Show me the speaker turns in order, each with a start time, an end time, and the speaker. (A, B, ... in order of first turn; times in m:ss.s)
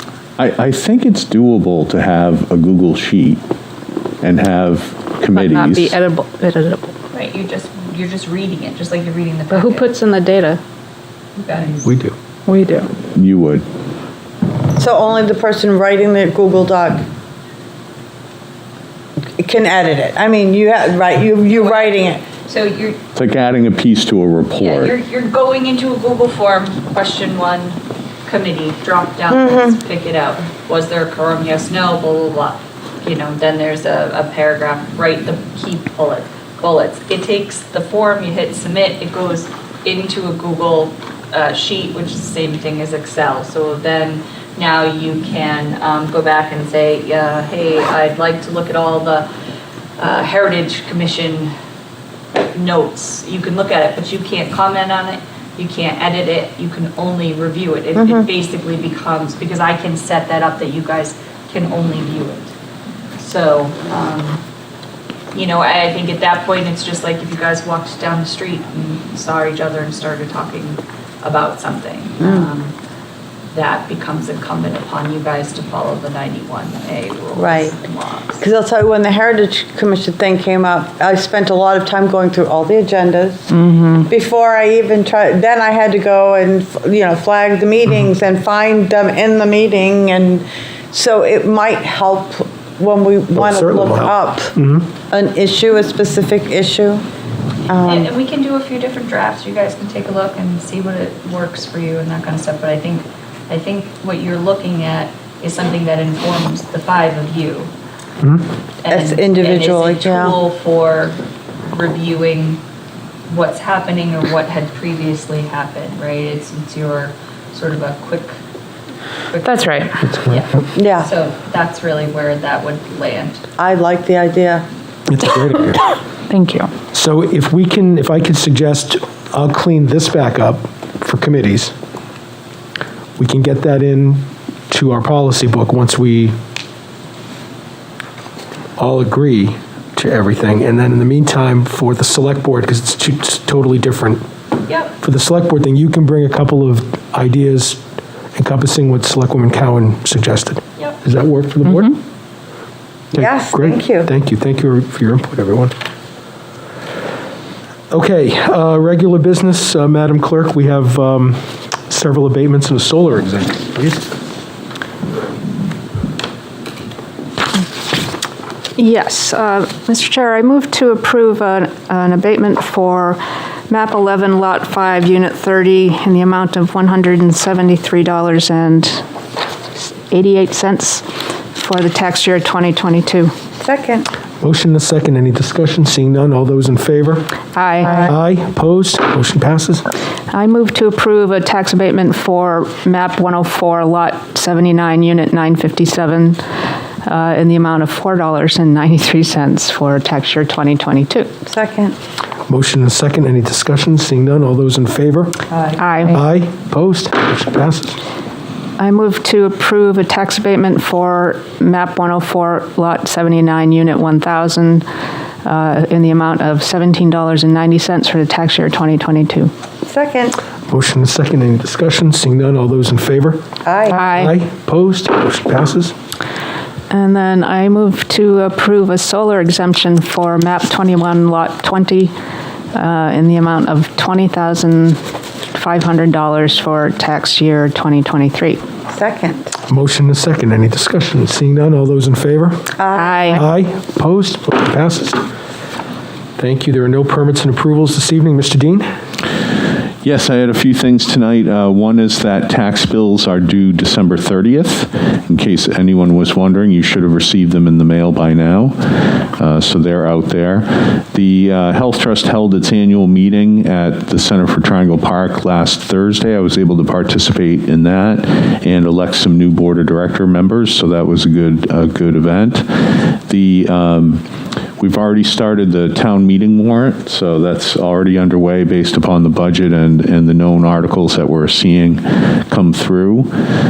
0:00.4-0:03.4 A
0:04.2-0:06.0 A
0:05.3-0:07.0 B
0:07.1-0:09.9 C
0:09.5-0:10.6 B
0:11.4-0:11.9 C
0:11.8-0:12.2 D
0:12.5-0:12.9 B
0:13.2-0:13.6 A
0:14.8-0:17.0 E
0:19.4-0:22.2 E
0:21.5-0:23.0 C
0:23.2-0:24.9 A
0:24.6-0:49.3 C
0:29.3-0:29.8 E
0:50.0-0:51.5 C
0:52.4-1:02.5 C
0:58.0-0:58.3 E
1:03.2-1:04.4 C
1:05.3-1:12.8 C
1:12.2-1:12.5 E
1:13.5-1:18.4 C
1:17.4-1:17.8 E
1:18.4-1:34.5 E
1:23.5-1:24.0 B
1:33.4-1:34.9 D
1:35.1-1:37.0 E
1:37.7-1:38.1 E
1:37.8-1:47.7 C
1:48.2-1:48.5 D
1:48.8-1:51.2 C
1:48.9-1:50.4 E
1:51.7-1:52.6 C
1:53.3-1:58.4 C
1:59.3-2:03.4 C
1:59.4-1:59.9 B
2:00.0-2:00.5 D
2:00.8-2:01.1 E
2:03.6-2:04.7 E
2:05.1-2:05.8 D
2:06.3-2:06.7 B
2:06.9-2:11.7 D
2:13.2-2:16.4 D
2:18.8-2:24.2 D
2:24.7-2:24.9 C
2:25.0-2:27.8 D
2:28.4-2:32.0 D
2:33.1-2:35.7 D
2:33.2-2:34.1 E
2:37.9-2:44.1 D
2:48.8-2:59.0 B
3:00.1-3:03.3 B
3:03.6-3:04.1 E
3:04.4-3:07.3 D
3:07.5-3:08.1 B
3:07.8-3:08.1 E
3:08.1-3:09.9 D
3:10.3-3:16.4 B
3:17.0-3:21.3 B
3:21.5-3:22.0 E
3:22.5-3:25.4 D
3:25.5-3:25.8 C
3:25.8-3:26.2 B
3:26.1-3:28.0 D
3:28.8-3:34.8 B
3:35.4-3:39.5 B
3:39.9-3:40.4 E
3:40.7-3:43.4 D
3:43.6-3:44.0 E
3:43.9-3:44.3 B
3:44.0-3:45.9 D
3:46.9-3:52.1 B
3:52.7-3:55.0 B
3:55.5-3:58.6 B
3:58.9-3:59.6 E
3:59.7-4:02.7 D
4:02.8-4:03.4 E
4:02.9-4:03.4 B
4:03.3-4:05.2 D
4:06.4-4:08.9 D
4:10.0-4:34.2 A
4:34.8-4:43.3 A